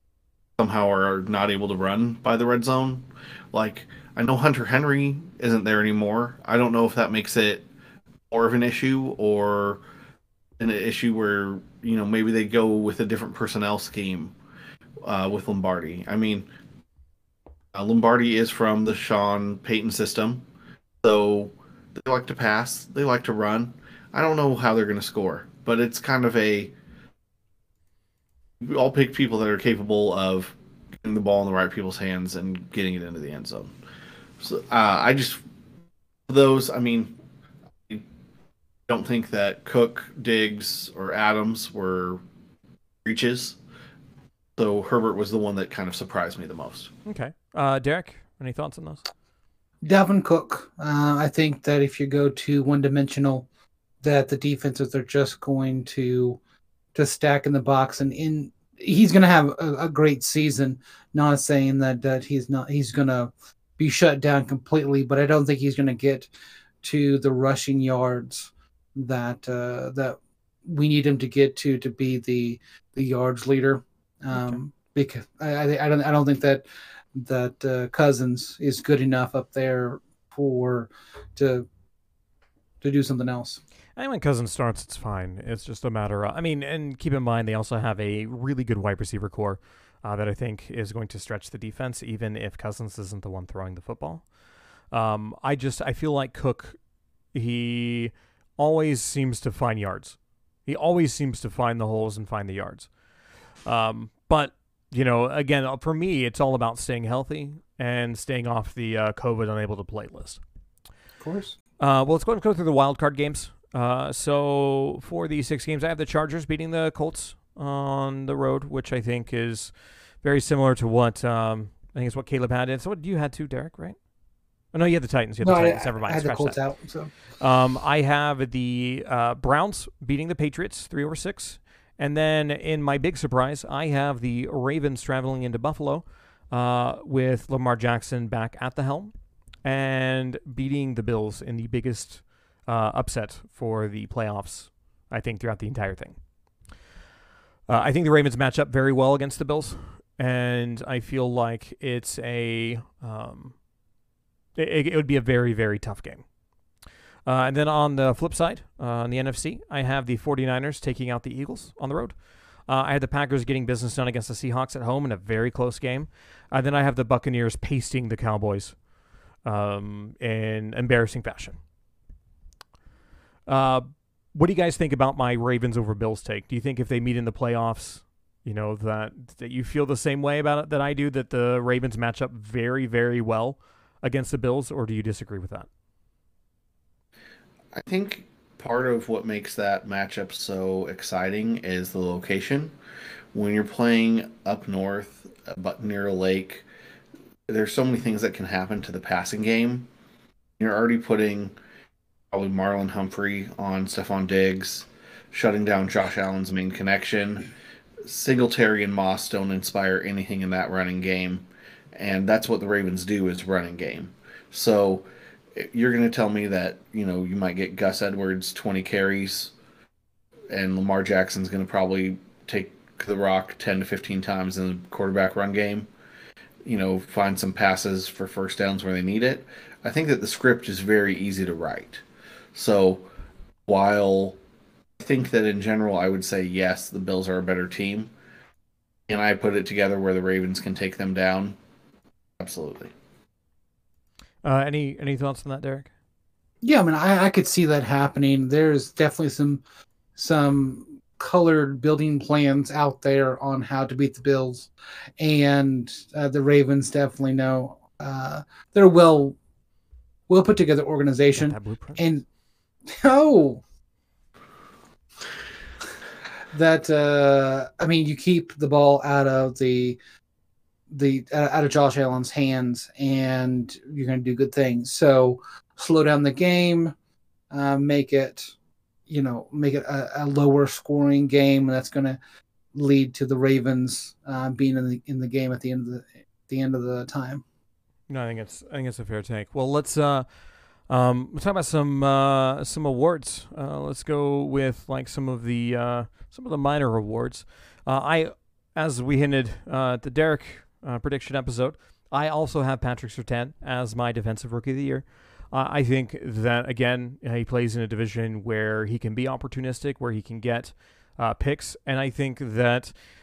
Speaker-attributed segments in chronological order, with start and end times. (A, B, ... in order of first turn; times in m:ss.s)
0:00.6-0:07.6 A
0:08.3-0:09.8 A
0:10.6-0:14.3 A
0:15.0-0:16.5 A
0:17.7-0:20.4 A
0:21.0-0:26.7 A
0:28.6-0:33.7 A
0:34.4-0:35.4 A
0:36.3-0:37.2 A
0:38.9-0:42.2 A
0:43.0-0:43.6 A
0:44.6-0:46.9 A
0:47.1-0:49.1 B
0:49.8-0:53.5 C
0:54.0-0:56.4 C
0:57.0-1:06.3 C
1:06.8-1:21.7 C
1:14.3-1:14.6 B
1:22.8-1:23.6 C
1:24.0-1:34.3 B
1:34.9-1:36.8 B
1:37.3-1:42.9 B
1:43.6-1:50.4 B
1:51.2-1:51.6 C
1:51.8-2:04.0 B
2:04.7-2:06.6 B
2:05.4-2:07.1 C
2:07.4-2:19.1 B
2:19.6-2:26.2 B
2:27.7-2:33.6 B
2:34.6-2:36.2 B
2:37.3-2:42.1 B
2:42.7-2:48.8 B
2:49.4-2:51.6 B
2:53.5-3:05.7 B
3:07.7-3:12.7 A
3:13.3-3:16.6 A
3:17.5-3:19.9 A
3:20.6-3:21.5 A
3:22.3-3:27.5 A
3:28.0-3:39.5 A
3:40.5-3:45.9 A
3:46.6-3:53.1 A
3:53.7-3:54.4 A
3:55.0-3:58.1 A
3:59.1-4:01.6 A
4:02.4-4:02.9 A
4:04.4-4:05.9 B
4:06.6-4:09.6 C
4:10.2-4:19.4 C
4:20.3-4:22.2 C
4:21.4-4:22.1 B
4:22.9-4:23.6 C
4:26.5-4:30.0 C
4:30.9-4:36.9 C
4:37.5-4:38.5 C
4:39.1-4:42.2 C
4:42.7-4:47.4 C
4:48.1-4:50.3 B
4:50.9-5:12.9 B